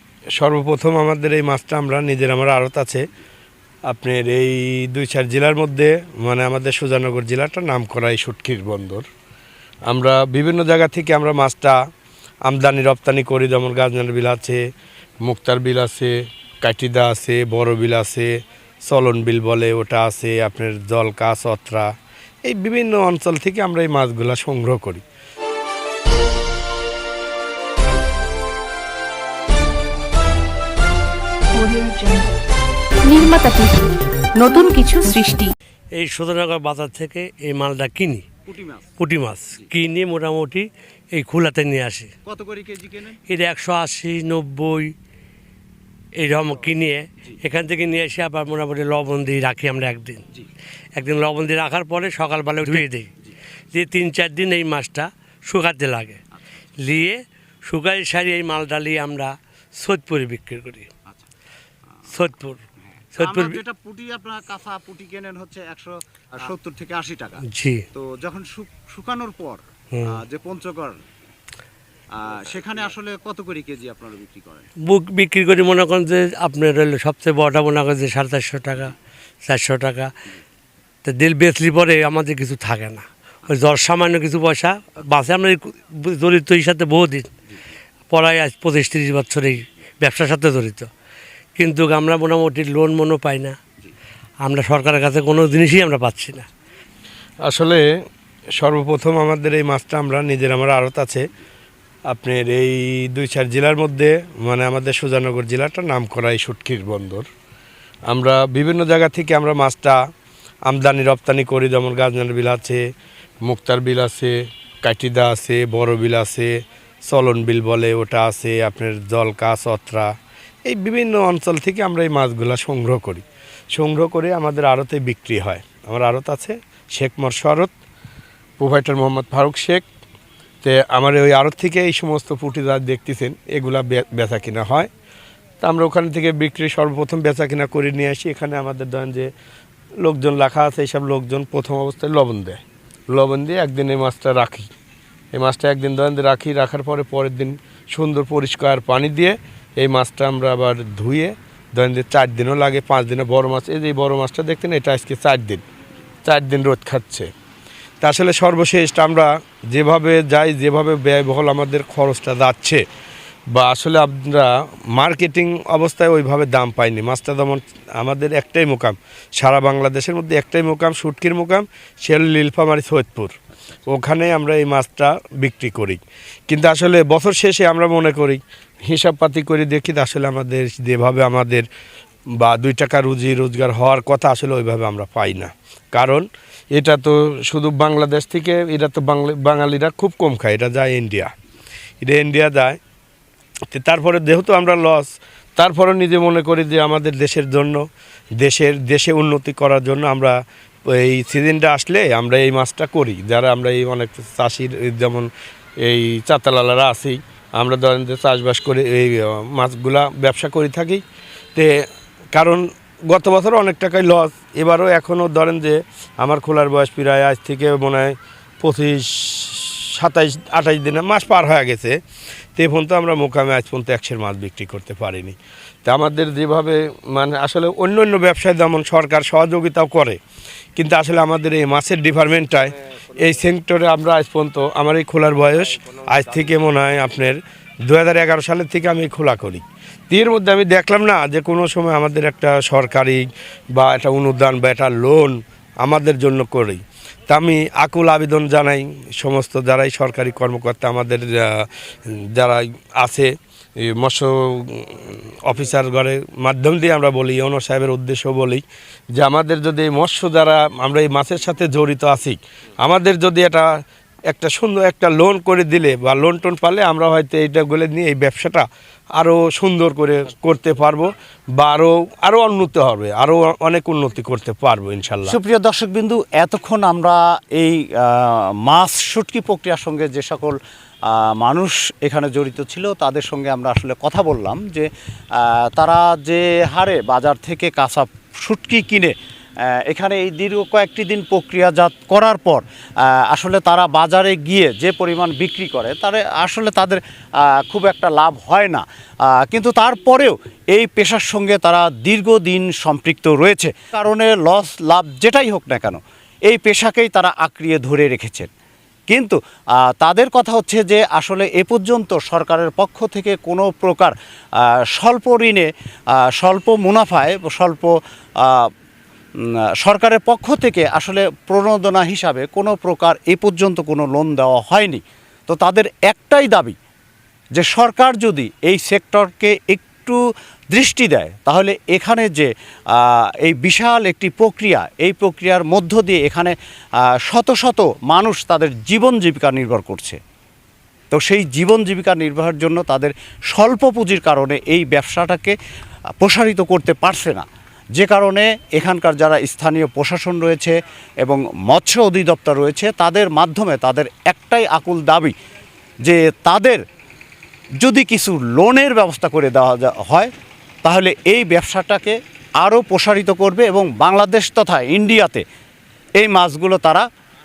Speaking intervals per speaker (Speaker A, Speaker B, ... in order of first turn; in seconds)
Speaker A: 0.4-3.0, 3.9-9.0, 9.9-11.8, 12.5-14.6, 15.2-18.3, 18.9-21.9, 22.4-25.0, 97.5-97.8, 98.6-101.2, 102.1-107.2, 108.1-110.0, 110.7-112.8, 113.5-116.5, 117.1-120.1, 120.7-127.7, 128.6-129.8, 130.6-134.9, 135.6-139.3, 140.0-144.7, 145.3-155.6, 156.2-157.3, 158.0-162.8, 163.5-173.3, 173.9-181.7, 182.4-191.3, 192.0-192.8, 193.7-197.8, 198.4-200.4, 200.9-205.3, 205.8-211.0, 212.3-222.0, 222.6-230.2, 230.8-251.7, 252.3-258.6, 259.1-263.7, 264.3-268.6, 269.2-275.3
Speaker B: 31.6-32.3, 33.0-33.8, 34.4-35.5
Speaker C: 35.9-38.2, 39.0-42.1, 43.3-44.9, 46.2-50.3, 50.9-53.1, 53.7-56.2, 56.8-60.9, 62.1-62.6, 63.1-63.6, 67.5-67.8, 69.9-70.2, 74.8-80.1, 81.0-87.3, 88.1-90.9, 91.5-93.6, 94.4-96.5
Speaker D: 38.5-38.9, 42.2-43.2, 52.6-53.3, 63.2-67.4, 67.9-71.0, 72.1-74.7, 275.2-289.1, 289.6-308.5, 309.1-318.7, 319.4-326.8, 327.6-330.2, 330.7-336.5, 337.1-340.2, 341.1-345.6, 346.2-355.3, 356.0-356.8, 357.8-360.3, 360.8-365.4, 366.2-367.1